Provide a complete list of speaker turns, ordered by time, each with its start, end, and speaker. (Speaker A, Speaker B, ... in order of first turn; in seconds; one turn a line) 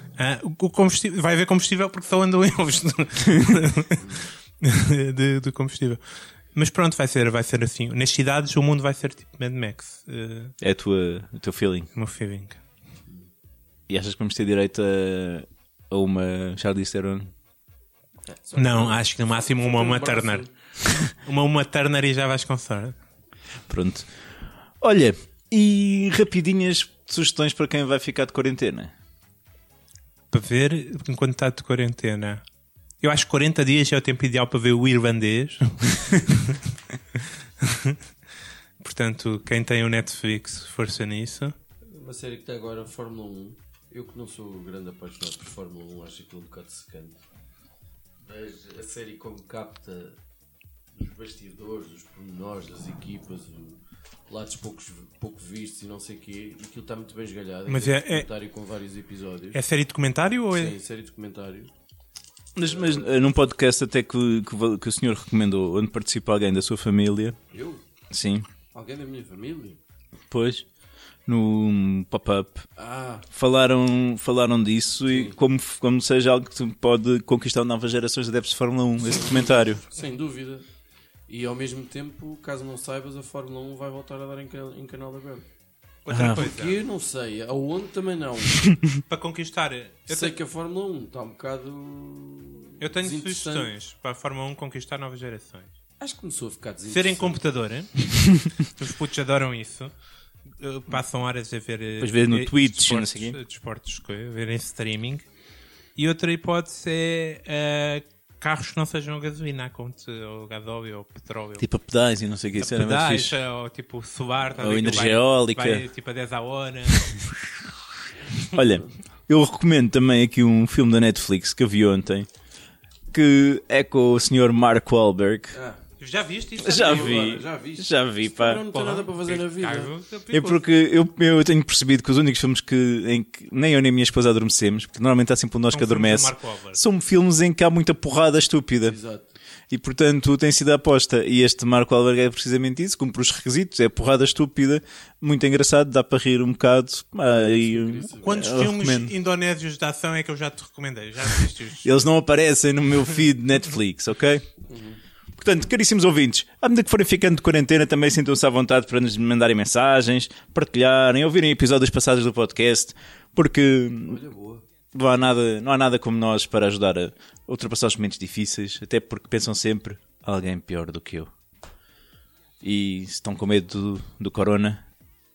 Speaker A: 0.2-6.0
Speaker A: 6.5-10.5
Speaker B: 10.6-11.9
Speaker A: 11.9-12.6
Speaker B: 13.9-17.3
Speaker C: 18.3-20.5
Speaker A: 18.6-20.5
Speaker A: 21.0-22.9
Speaker B: 23.7-24.1
Speaker B: 24.8-28.9
Speaker A: 30.3-32.4
Speaker A: 33.0-36.6
Speaker A: 37.6-38.0
Speaker A: 38.8-41.5
Speaker C: 41.9-47.2
Speaker C: 48.2-50.2
Speaker C: 50.9-59.6
Speaker A: 57.7-58.3
Speaker A: 59.5-60.7
Speaker C: 60.5-61.7
Speaker B: 62.5-67.4
Speaker C: 62.6-63.2
Speaker C: 67.5-67.8
Speaker B: 68.1-68.5
Speaker C: 68.7-69.8
Speaker B: 70.3-70.6
Speaker B: 71.3-72.7
Speaker C: 72.8-73.2
Speaker B: 73.3-79.8
Speaker C: 75.1-75.4
Speaker C: 79.1-80.6
Speaker C: 81.3-85.5
Speaker A: 86.0-86.8
Speaker B: 86.1-86.5
Speaker C: 86.1-88.7
Speaker A: 89.1-90.3
Speaker C: 90.1-93.7
Speaker A: 92.8-95.7
Speaker C: 96.0-97.4
Speaker A: 96.9-99.9
Speaker A: 100.6-105.2
Speaker B: 102.0-103.4
Speaker A: 106.0-111.6
Speaker B: 111.6-113.4
Speaker A: 112.6-117.3
Speaker B: 114.6-115.8
Speaker B: 118.5-122.3
Speaker B: 123.1-125.5
Speaker C: 125.5-125.8
Speaker A: 126.0-127.3
Speaker B: 126.6-128.6
Speaker C: 126.6-129.9
Speaker A: 128.7-130.6
Speaker B: 130.3-138.9
Speaker A: 135.7-136.8
Speaker C: 138.8-139.3
Speaker B: 139.7-149.1
Speaker C: 147.2-148.4
Speaker A: 148.2-152.0
Speaker B: 151.8-154.4
Speaker C: 154.7-155.0
Speaker B: 155.3-164.2
Speaker C: 164.1-164.6
Speaker B: 164.9-171.3
Speaker B: 172.6-174.8